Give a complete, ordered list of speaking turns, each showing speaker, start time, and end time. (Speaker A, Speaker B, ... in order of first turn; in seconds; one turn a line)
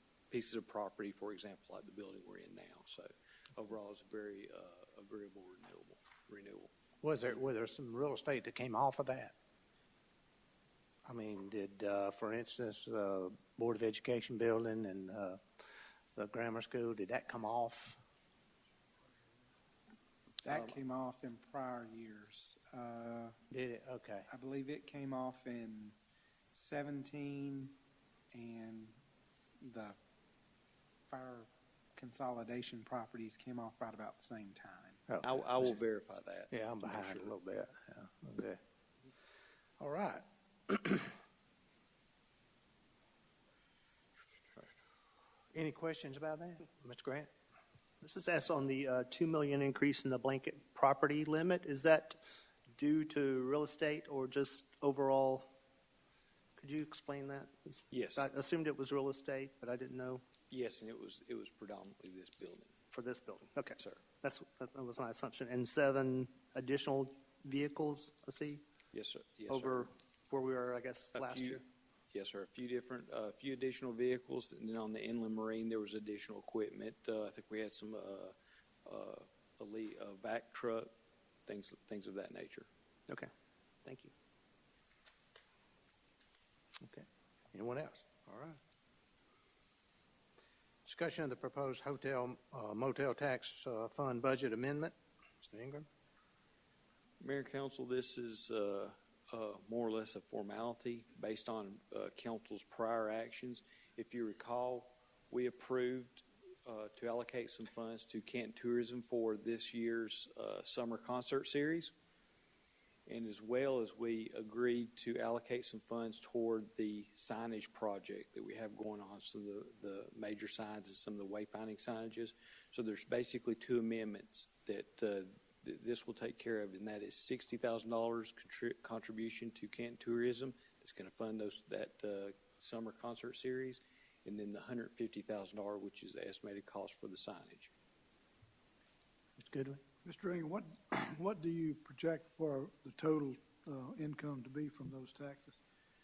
Speaker A: 0.3-6.7
Speaker B: 7.0-9.3
Speaker B: 11.1-18.0
Speaker C: 20.4-23.3
Speaker B: 23.5-24.3
Speaker C: 24.3-25.9
Speaker C: 26.5-27.8
Speaker C: 28.3-28.9
Speaker C: 29.6-30.0
Speaker C: 31.1-35.0
Speaker B: 35.1-35.7
Speaker A: 35.2-37.3
Speaker B: 36.5-38.6
Speaker B: 39.8-41.1
Speaker B: 45.5-47.3
Speaker D: 48.0-52.2
Speaker D: 52.7-55.5
Speaker D: 56.6-60.2
Speaker A: 57.9-58.3
Speaker A: 60.5-62.7
Speaker D: 62.9-68.6
Speaker A: 68.9-69.9
Speaker D: 69.5-71.6
Speaker A: 71.1-80.9
Speaker A: 81.5-82.7
Speaker B: 86.8-88.6
Speaker B: 90.8-95.8
Speaker A: 97.2-111.9
Speaker A: 113.1-137.7
Speaker B: 139.4-139.8
Speaker E: 140.0-145.6